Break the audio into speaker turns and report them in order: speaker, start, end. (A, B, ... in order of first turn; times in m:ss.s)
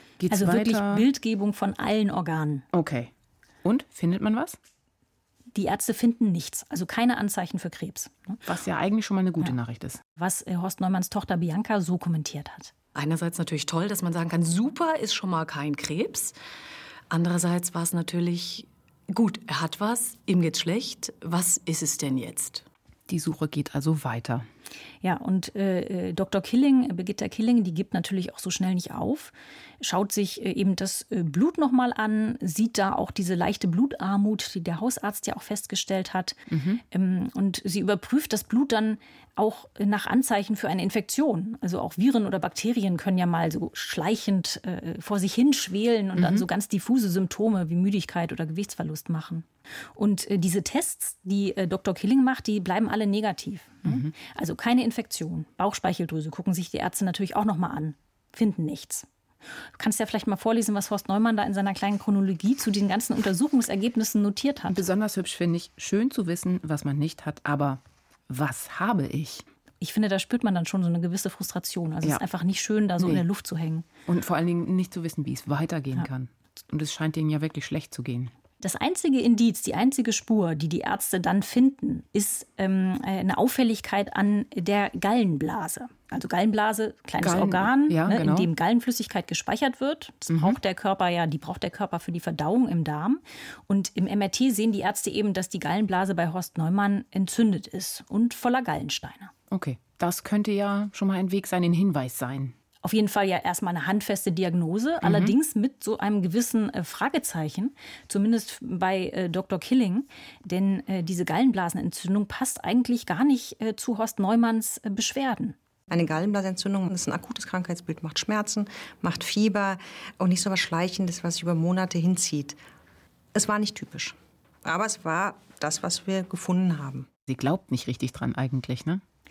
0:00.2-0:01.0 A
0:00.3-0:02.6 B
0:02.7-0:03.1 A
0:03.6-0:04.6 A
0:05.5-0:08.4 B
0:08.4-0:10.0 A
0:10.2-0:12.7 B
0:12.9-0:16.4 C
0:17.1-0:22.6 C
0:23.1-0:24.4 A
0:25.0-0:59.1 B
0:36.5-0:36.8 A
0:46.2-0:46.4 A
0:53.8-0:54.1 A
0:59.8-1:04.8 B
1:04.7-1:09.4 A
1:09.8-1:13.8 B
1:14.0-1:18.3 A
1:18.6-1:39.3 B
1:27.2-1:28.5 A
1:30.3-1:30.6 A
1:39.5-1:42.5 A
1:42.8-1:55.5 B
1:45.0-1:45.3 A
1:55.9-2:02.6 D
2:03.3-2:07.1 D
2:07.3-2:09.0 A